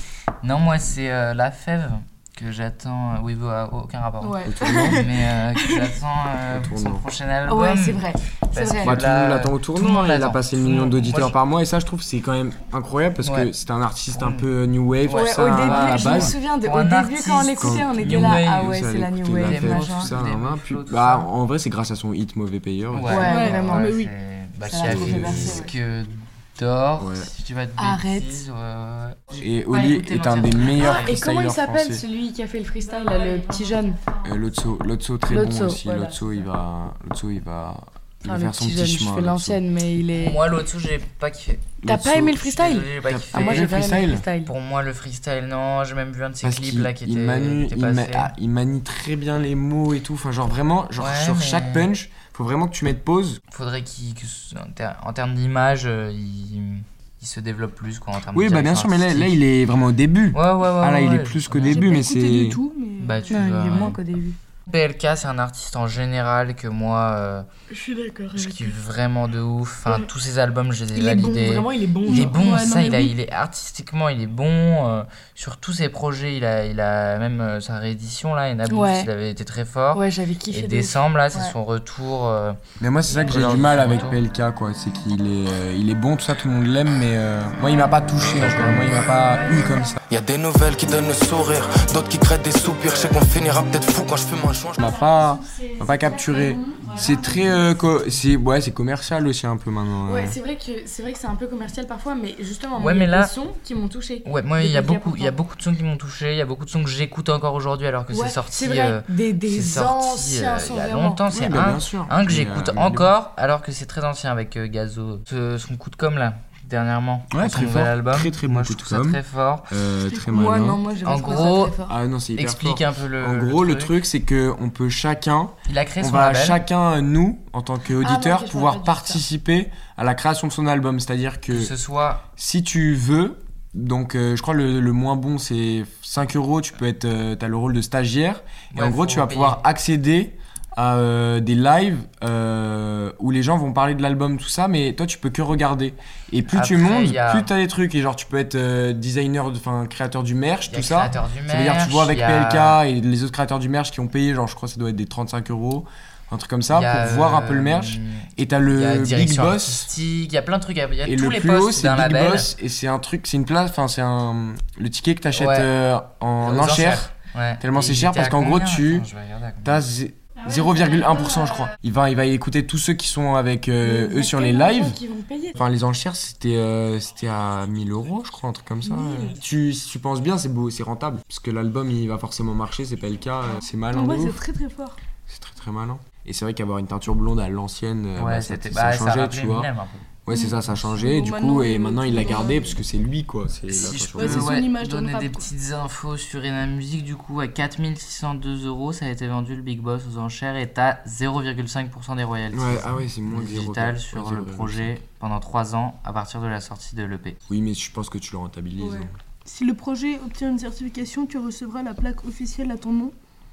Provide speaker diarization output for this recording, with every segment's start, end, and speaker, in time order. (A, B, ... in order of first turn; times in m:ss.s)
0:00.4-0:11.4 A
0:04.2-0:05.8 B
0:04.4-0:05.1 C
0:06.5-0:07.0 C
0:07.5-0:09.0 B
0:08.8-0:16.4 C
0:13.2-0:13.5 A
0:14.1-0:14.5 A
0:15.0-0:18.8 A
0:15.1-0:20.1 B
0:17.6-0:23.3 C
0:19.4-0:21.3 A
0:22.9-0:31.2 A
0:23.1-0:24.0 B
0:23.3-0:24.1 D
0:24.6-0:25.7 B
0:24.8-0:25.6 C
0:27.0-0:27.3 C
0:27.8-0:28.4 B
0:29.4-0:32.0 C
0:30.8-0:34.0 B
0:34.2-0:39.6 C
0:35.3-0:36.2 B
0:38.2-0:40.4 B
0:40.1-0:48.3 A
0:41.8-0:42.5 C
0:41.8-0:44.5 B
0:43.0-0:44.2 C
0:46.4-0:53.4 C
0:51.0-0:51.9 A
0:53.5-0:59.4 A
0:58.3-1:02.6 C
1:00.3-1:01.8 A
1:01.6-1:03.9 D
1:03.0-1:04.0 A
1:03.3-1:04.4 B
1:04.7-1:07.5 A
1:07.7-1:08.8 B
1:08.4-1:24.2 A
1:10.9-1:12.4 B
1:12.1-1:13.1 D
1:18.7-1:19.1 B
1:19.9-1:21.6 B
1:22.8-1:30.0 C
1:30.1-1:34.8 E
1:34.8-1:40.4 C
1:40.0-1:45.4 B
1:42.8-1:43.3 A
1:44.2-1:59.7 A
1:48.1-1:51.2 B
1:51.3-1:53.1 C
1:57.3-2:00.8 C
2:00.3-2:02.0 B
2:01.0-2:01.8 A
2:01.8-2:11.7 C
2:02.4-2:04.0 A
2:05.7-2:06.6 A
2:08.0-2:09.2 B
2:11.5-2:12.3 A
2:12.4-2:39.9 C
2:18.7-2:19.6 A
2:26.5-2:27.5 A
2:30.7-2:32.8 A
2:36.7-2:42.5 A
2:41.0-2:49.1 C
2:45.3-2:45.7 A
2:46.4-2:49.8 A
2:49.6-2:55.0 C
2:53.8-2:55.6 B
2:55.6-3:04.4 C
2:58.8-2:59.3 B
3:03.9-3:05.0 D
3:05.3-3:09.7 C
3:08.2-3:10.1 A
3:10.2-3:14.5 C
3:10.3-3:12.8 D
3:13.7-3:27.4 A
3:14.2-3:15.5 D
3:22.5-3:25.0 C
3:27.5-3:29.2 C
3:29.4-3:33.2 D